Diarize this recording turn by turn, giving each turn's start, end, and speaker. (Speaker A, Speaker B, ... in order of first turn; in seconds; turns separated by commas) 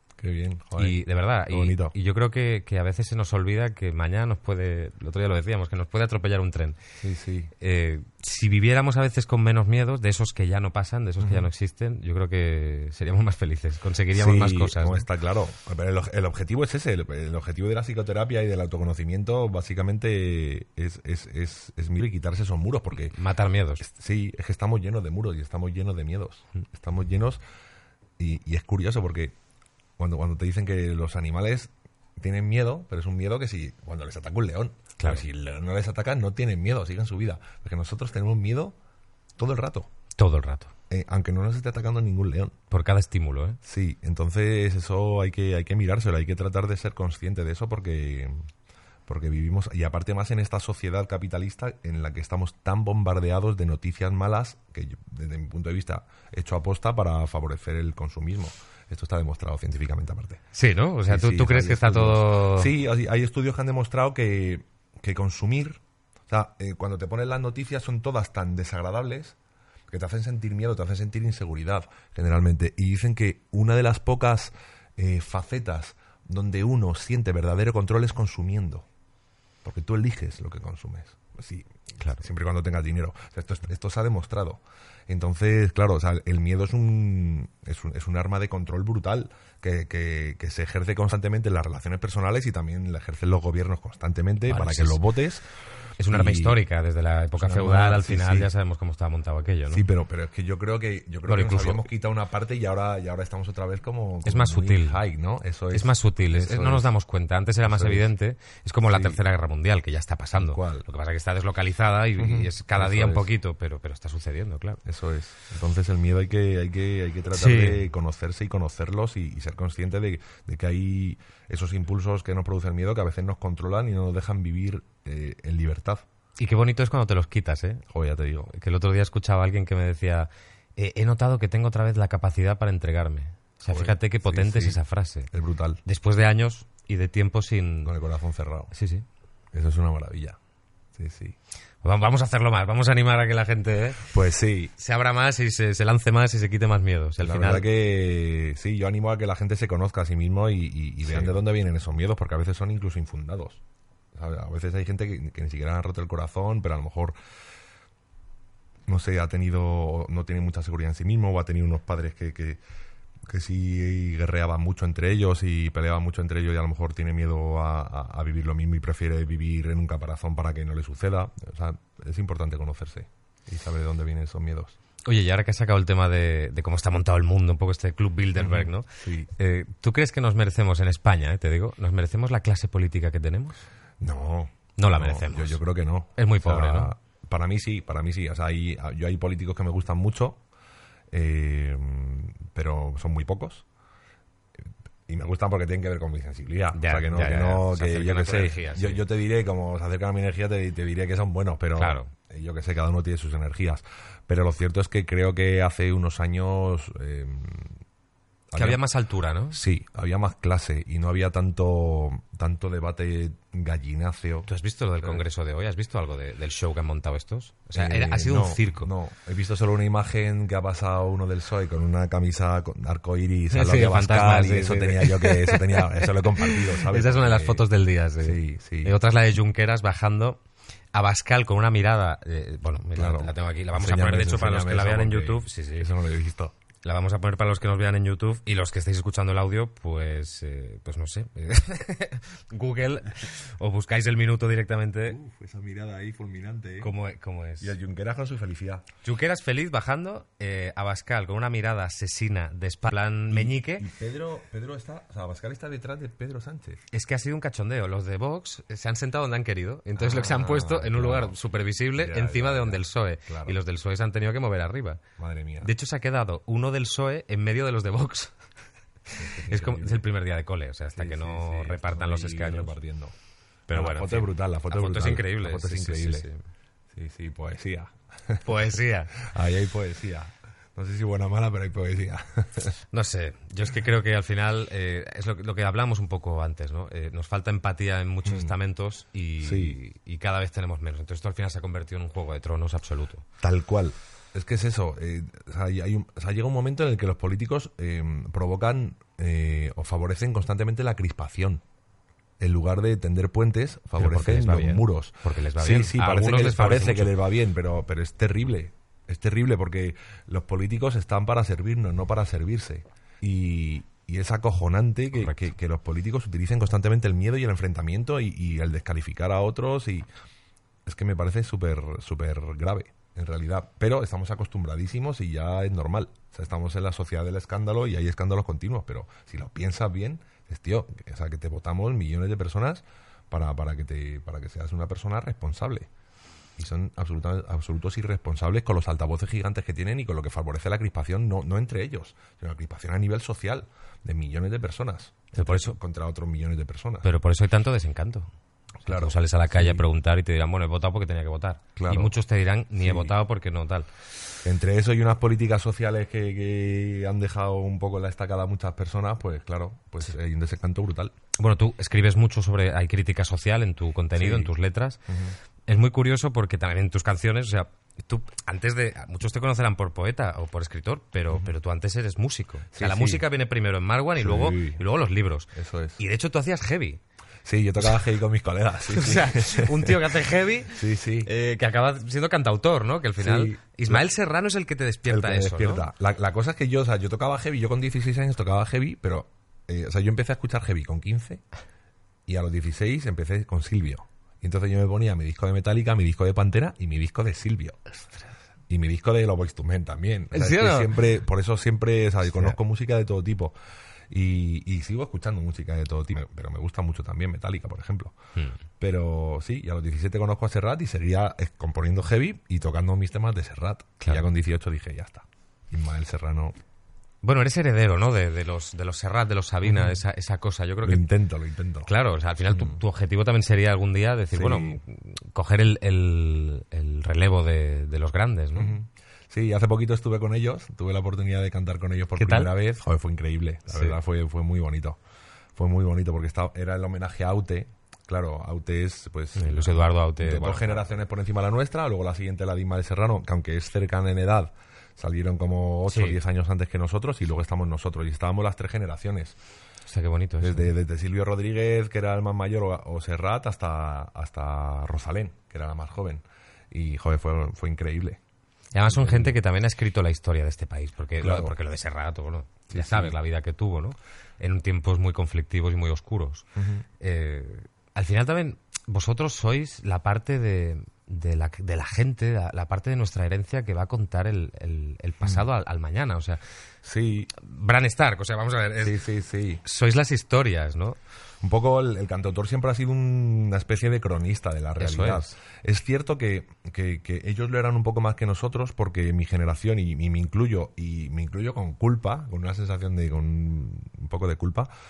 Speaker A: 0.2-1.9, Speaker B: 0.8-6.8, Speaker A: 7.0-7.5, Speaker B: 7.6-15.1, Speaker A: 11.2-11.5, Speaker A: 14.1-23.2, Speaker B: 23.1-23.8, Speaker A: 23.8-27.4, Speaker A: 28.2-29.4, Speaker A: 30.0-38.8, Speaker B: 35.0-35.2, Speaker A: 39.4-39.9, Speaker B: 40.2-40.7, Speaker A: 40.9-42.5, Speaker B: 42.7-43.6, Speaker A: 43.6-48.5, Speaker A: 49.1-60.4, Speaker B: 60.5-62.7, Speaker A: 61.1-69.4, Speaker A: 69.9-78.9, Speaker A: 79.6-95.5, Speaker B: 94.5-95.0, Speaker B: 96.0-99.8, Speaker A: 96.1-96.6, Speaker A: 97.4-98.5, Speaker A: 99.7-106.9, Speaker B: 101.3-101.9, Speaker B: 104.2-105.0, Speaker B: 105.7-114.8, Speaker A: 107.7-108.1, Speaker A: 108.9-109.2, Speaker A: 110.4-110.9, Speaker A: 112.2-113.3, Speaker A: 114.8-126.0, Speaker B: 117.3-117.9, Speaker B: 126.4-127.8, Speaker A: 127.9-128.5, Speaker B: 128.5-135.3, Speaker A: 133.7-134.8, Speaker A: 135.3-135.8, Speaker B: 135.8-137.9, Speaker A: 137.8-138.7, Speaker B: 138.7-139.1, Speaker A: 139.5-140.4, Speaker A: 140.9-141.4, Speaker B: 141.8-144.1, Speaker A: 144.1-144.7, Speaker B: 144.8-147.7, Speaker A: 147.2-153.6, Speaker B: 151.1-151.4, Speaker A: 154.1-157.2, Speaker A: 158.9-162.6, Speaker A: 163.3-174.8, Speaker B: 175.1-183.6, Speaker A: 178.4-179.3, Speaker A: 184.0-190.4, Speaker B: 184.8-185.6, Speaker B: 186.2-186.9, Speaker A: 191.1-193.7, Speaker A: 195.1-207.8, Speaker B: 196.7-199.0, Speaker B: 201.8-202.1, Speaker A: 208.5-208.8, Speaker B: 208.6-209.6, Speaker A: 209.5-214.5, Speaker B: 214.5-218.9, Speaker A: 217.7-227.7, Speaker B: 223.5-230.4, Speaker A: 228.2-229.0, Speaker B: 230.9-235.9, Speaker A: 233.0-236.5, Speaker B: 236.8-245.2, Speaker A: 245.1-246.9, Speaker B: 246.8-247.7, Speaker A: 247.6-248.8, Speaker B: 249.0-253.9, Speaker A: 253.3-256.8, Speaker B: 256.9-265.0, Speaker A: 260.0-261.4, Speaker A: 261.9-263.6, Speaker A: 265.2-265.7, Speaker B: 265.6-268.3, Speaker A: 269.2-270.1, Speaker B: 269.2-272.8, Speaker A: 271.0-273.1, Speaker B: 273.7-276.4, Speaker A: 273.7-276.3, Speaker A: 276.9-278.5, Speaker B: 278.4-279.2, Speaker A: 279.1-282.8, Speaker B: 282.9-293.2, Speaker A: 288.2-288.6, Speaker A: 289.4-289.8, Speaker A: 293.4-301.6, Speaker A: 302.4-320.1, Speaker B: 304.0-307.1, Speaker A: 320.9-335.9, Speaker A: 336.6-347.1, Speaker B: 345.3-345.8, Speaker B: 347.0-348.3, Speaker A: 348.8-349.8, Speaker B: 348.9-353.9, Speaker A: 351.8-352.1, Speaker A: 352.8-353.1, Speaker A: 354.4-361.1, Speaker B: 361.4-365.0, Speaker A: 364.1-364.5, Speaker A: 365.1-365.4, Speaker B: 365.7-377.0, Speaker A: 372.7-373.3, Speaker A: 374.2-374.8, Speaker A: 375.5-376.0, Speaker A: 377.4-380.1, Speaker B: 378.9-385.9, Speaker A: 380.7-381.3, Speaker A: 383.2-384.0, Speaker A: 385.1-391.4, Speaker A: 392.3-397.9, Speaker A: 398.7-403.5, Speaker B: 400.3-400.9, Speaker B: 402.3-402.6, Speaker A: 404.1-408.2, Speaker A: 408.8-416.6, Speaker B: 414.0-414.3, Speaker B: 417.2-421.1, Speaker A: 419.6-420.0, Speaker A: 420.8-421.9, Speaker B: 421.9-428.8, Speaker A: 422.5-422.8, Speaker A: 424.3-424.8, Speaker A: 428.6-435.0, Speaker B: 432.2-432.5, Speaker B: 433.7-434.0, Speaker A: 435.6-449.4, Speaker B: 439.4-440.9, Speaker B: 445.9-446.2, Speaker B: 449.9-450.7, Speaker A: 450.4-458.2, Speaker B: 458.7-466.5, Speaker A: 458.9-459.4, Speaker A: 461.2-461.6, Speaker A: 462.7-463.2, Speaker A: 466.6-466.9, Speaker B: 467.0-476.4, Speaker A: 476.8-477.3, Speaker B: 477.4-479.0, Speaker A: 478.8-479.6, Speaker B: 479.6-481.0, Speaker A: 481.4-494.7, Speaker B: 484.8-485.3